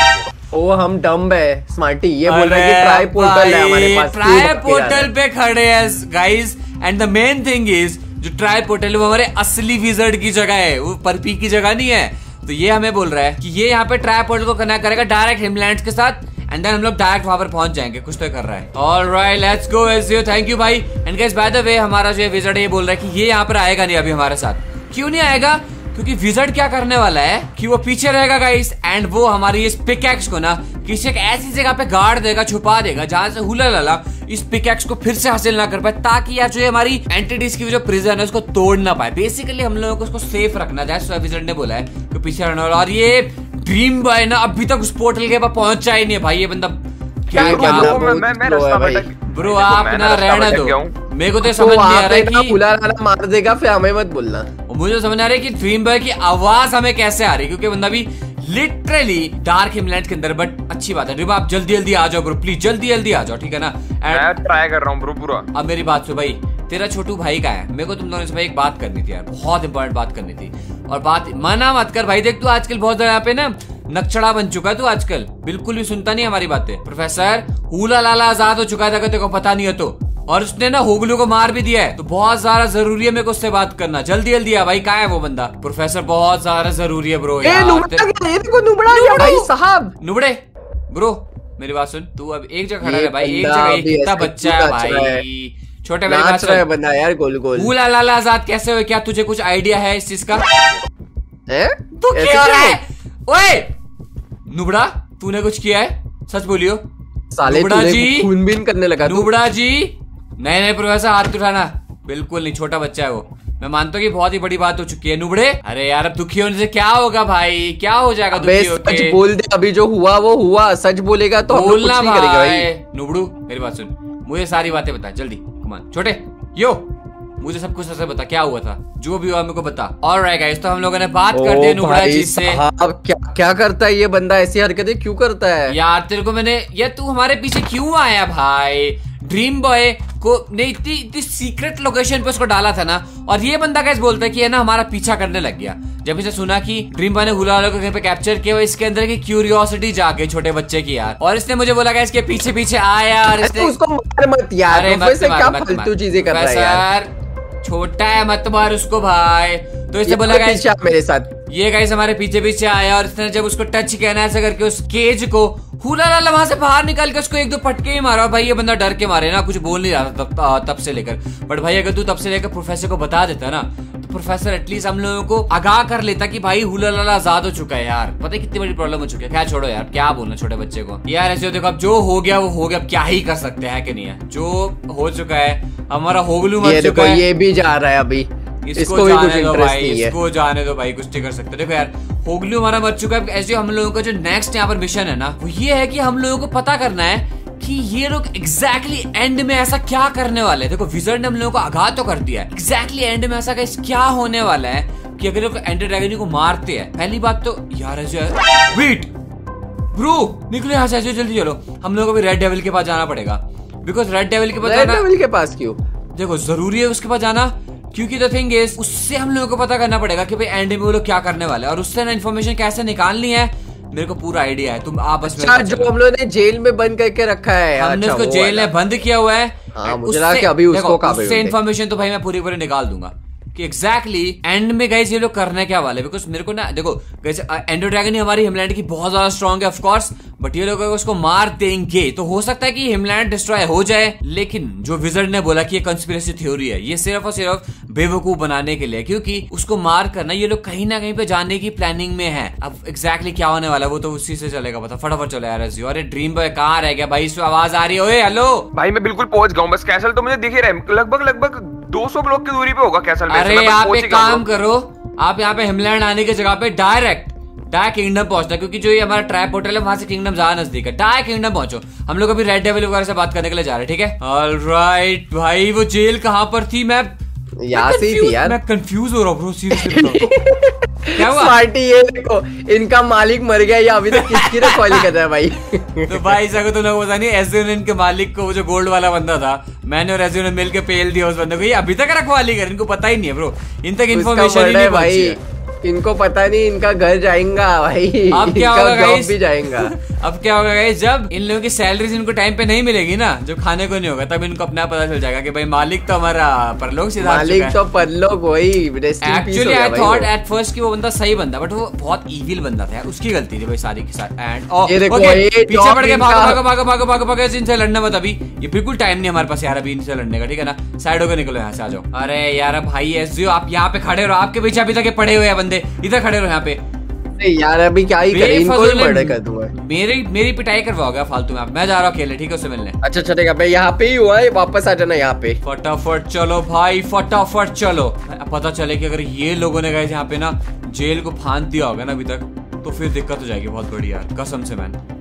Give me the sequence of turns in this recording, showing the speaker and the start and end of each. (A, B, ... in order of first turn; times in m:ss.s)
0:00.5-0:05.1 A
0:02.3-0:48.0 B
0:47.3-0:49.1 A
0:47.4-0:50.9 C
0:49.3-0:52.6 B
0:51.4-0:54.5 A
0:54.7-1:04.4 B
1:04.1-1:05.5 C
1:05.5-1:28.1 B
1:27.4-1:29.9 A
1:28.9-1:36.6 B
1:32.8-1:35.2 A
1:36.1-1:37.7 A
1:37.6-1:40.4 B
1:41.5-1:42.8 A
1:42.0-1:43.7 B
1:44.5-1:46.8 B
1:47.3-1:49.3 A
1:47.5-1:48.3 B
1:49.0-1:59.2 B
1:58.3-2:02.7 A
2:01.5-2:06.9 B
2:07.4-2:12.6 B
2:11.3-2:15.8 A
2:15.7-2:33.7 B
2:33.4-2:36.8 A
2:34.7-2:37.1 B
2:37.6-2:40.6 B
2:40.1-2:41.3 A
2:41.5-3:07.2 B
3:06.6-3:10.2 A
3:08.6-3:29.1 B
3:29.9-3:35.1 B
3:34.6-3:35.8 A
3:36.1-3:45.9 B
3:45.3-3:48.7 A
3:47.8-4:18.7 B
3:49.7-3:51.6 A
4:18.7-4:24.4 C
4:23.3-4:37.2 B
4:37.6-4:38.6 A
4:37.7-4:40.3 B
4:39.7-4:46.4 A
4:41.1-4:41.6 B
4:44.1-4:45.1 B
4:46.0-4:55.4 B
4:54.1-4:59.9 A
4:58.3-5:07.8 B
5:07.2-5:10.3 A
5:09.2-5:26.8 B
5:14.9-5:16.6 A
5:27.4-5:29.7 A
5:28.3-5:33.0 B
5:33.0-5:35.6 A
5:35.6-5:45.0 B